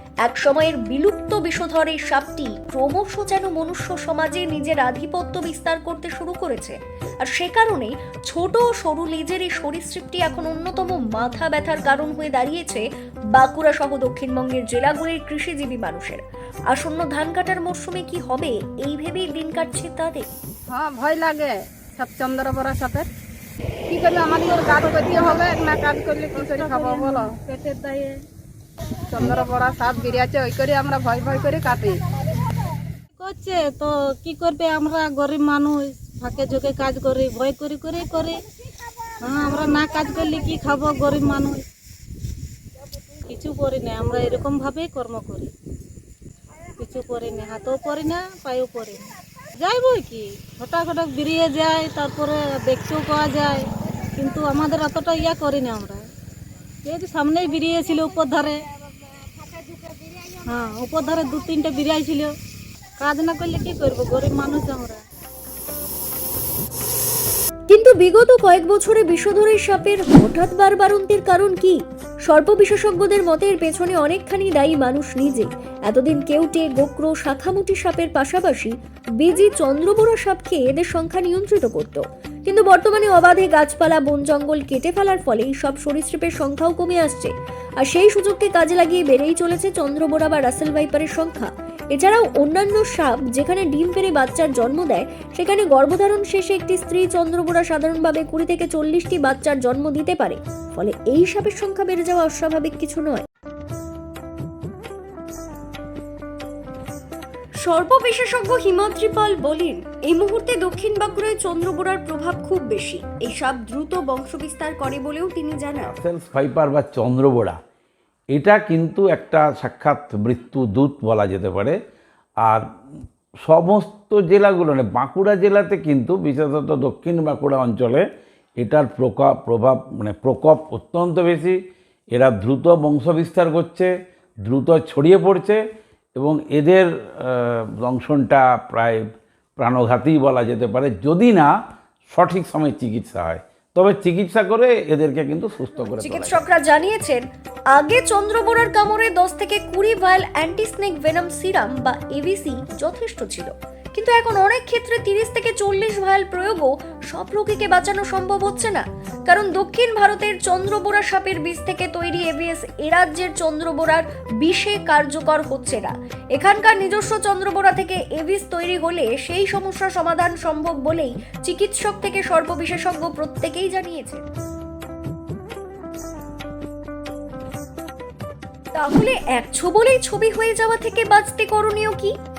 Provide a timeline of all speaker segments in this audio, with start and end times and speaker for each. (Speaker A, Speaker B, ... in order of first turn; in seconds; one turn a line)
Speaker A: 0.2-20.3
Speaker B: 20.7-23.1
Speaker B: 23.9-27.3
Speaker C: 24.3-25.6
Speaker C: 26.3-28.2
Speaker B: 29.1-32.0
Speaker C: 33.2-38.4
Speaker C: 39.2-41.6
Speaker C: 43.2-45.5
Speaker C: 46.8-56.1
Speaker C: 56.8-58.6
Speaker C: 60.3-62.3
Speaker C: 63.0-65.0
Speaker A: 67.7-103.2
Speaker A: 107.6-115.9
Speaker D: 115.8-117.6
Speaker D: 118.3-121.8
Speaker D: 123.4-128.0
Speaker D: 128.6-131.6
Speaker D: 132.1-133.9
Speaker D: 134.4-135.6
Speaker D: 136.2-139.1
Speaker D: 139.6-141.5
Speaker D: 142.1-146.4
Speaker A: 146.0-147.2
Speaker A: 147.7-174.2
Speaker A: 178.7-182.1